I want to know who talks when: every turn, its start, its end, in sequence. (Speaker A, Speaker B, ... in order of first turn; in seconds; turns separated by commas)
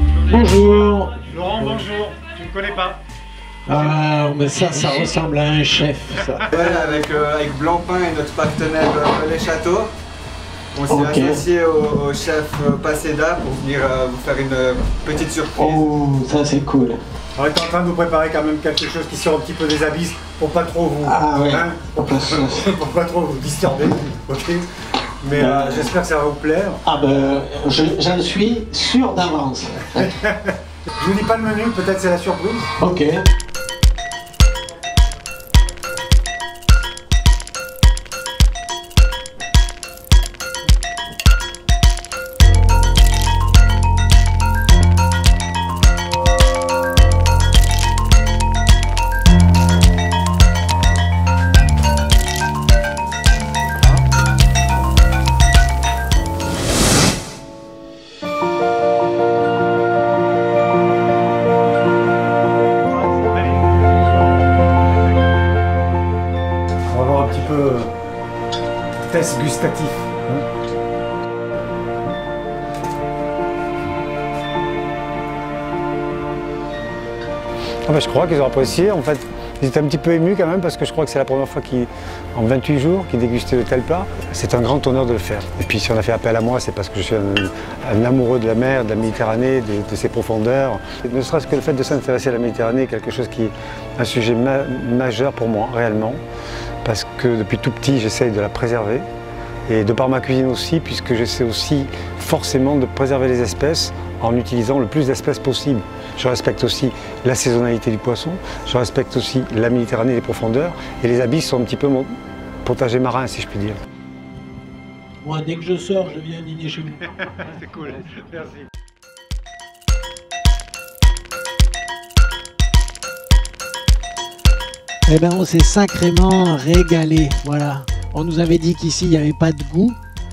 Speaker A: 0.2-1.2, Speaker B: 1.2-3.0, Speaker A: 3.7-6.8, Speaker B: 3.7-4.0, Speaker B: 4.8-5.0, Speaker C: 6.5-9.9, Speaker C: 10.7-15.9, Speaker A: 10.9-11.4, Speaker A: 15.6-17.0, Speaker B: 17.4-24.6, Speaker A: 21.0-22.7, Speaker B: 25.2-26.8, Speaker A: 25.3-25.9, Speaker A: 26.8-30.1, Speaker B: 29.9-32.7, Speaker A: 32.8-33.2, Speaker B: 63.1-63.4, Speaker B: 66.9-67.9, Speaker B: 69.0-70.5, Speaker B: 77.8-96.2, Speaker B: 96.8-99.1, Speaker B: 99.7-113.8, Speaker A: 115.2-117.0, Speaker B: 117.3-118.6, Speaker A: 125.1-130.0